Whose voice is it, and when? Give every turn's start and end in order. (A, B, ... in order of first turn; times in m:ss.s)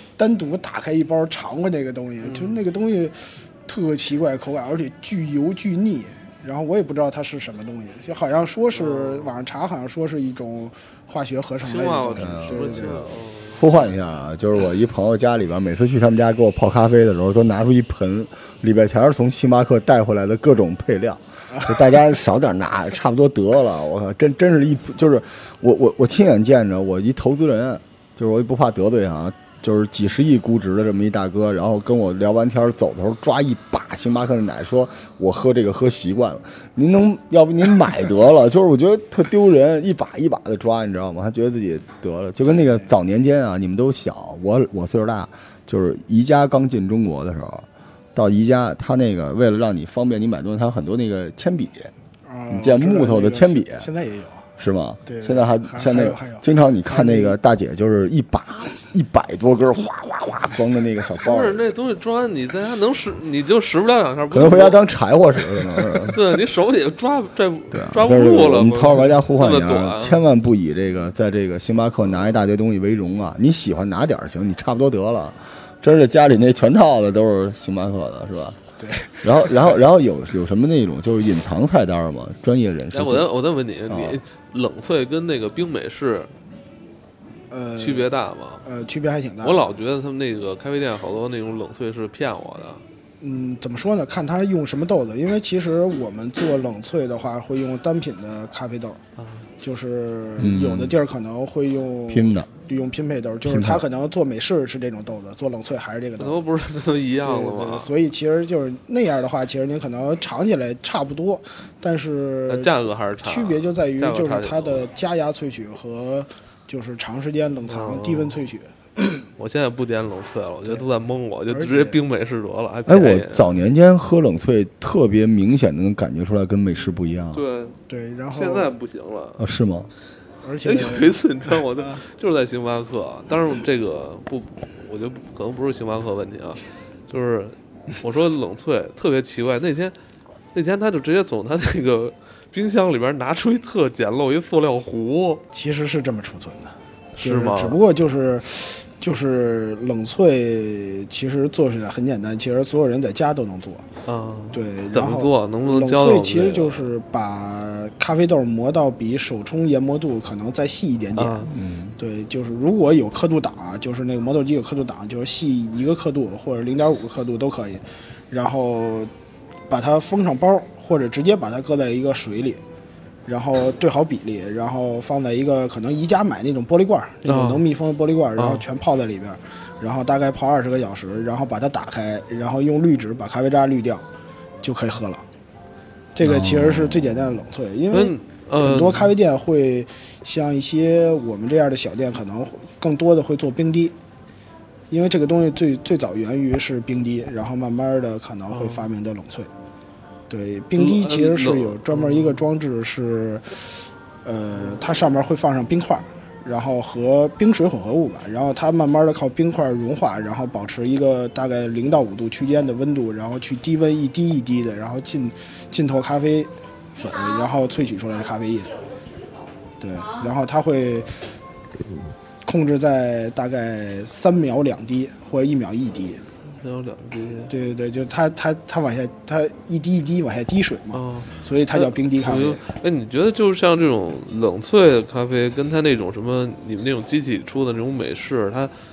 0:00.2-0:13.1 A
0:02.2-0:02.6 B
0:08.7-0:09.4 B
0:11.6-0:13.7 B
0:12.2-0:51.9 C
0:21.5-0:21.8 A
0:42.4-0:42.9 A
0:52.2-0:54.4 A
0:52.5-0:53.9 C
0:54.6-1:01.6 C
0:55.0-0:57.4 A
1:01.2-1:04.8 B
1:04.3-1:06.2 C
1:06.0-1:10.2 B
1:07.7-1:18.6 C
1:18.8-1:19.4 A
1:19.2-1:23.3 C
1:22.9-1:26.3 B
1:23.9-1:24.2 C
1:27.5-1:28.1 A
1:27.8-1:28.6 B
1:28.6-1:29.8 A
1:29.4-1:32.8 B
1:33.2-1:39.0 A
1:39.2-1:39.5 B
1:39.6-1:46.5 A
1:40.4-1:41.0 C
1:42.1-1:42.5 C
1:43.4-1:43.8 C
1:46.2-1:47.9 B
1:47.2-1:59.3 A
1:52.5-1:54.9 B
1:57.7-1:58.4 B
1:59.4-2:03.5 B
2:01.5-2:02.0 A
2:02.9-2:07.4 C
2:07.3-2:07.8 B
2:07.9-2:08.7 A
2:08.3-2:09.4 B
2:09.4-2:09.9 C
2:10.4-2:12.0 A
2:10.6-2:19.9 B
2:20.5-2:25.4 B
2:25.5-2:33.8 A
2:27.2-2:27.8 B
2:34.0-2:36.9 B
2:34.5-2:49.1 A
2:41.2-2:41.5 B
2:41.5-2:41.9 C
2:49.7-2:52.6 A
2:53.3-3:04.1 A
2:57.2-2:57.6 B
2:58.4-2:58.6 B
3:04.6-3:05.2 A
3:06.1-3:13.9 A
3:06.2-3:07.1 C
3:07.9-3:09.1 B
3:14.9-3:19.5 A
3:18.5-3:18.8 B
3:20.3-3:23.4 A
3:20.8-3:22.4 B
3:24.2-3:38.7 A
3:39.8-3:41.1 A
3:42.4-3:46.2 A
3:46.6-3:47.5 B
3:47.5-3:52.6 A
3:50.9-3:58.7 B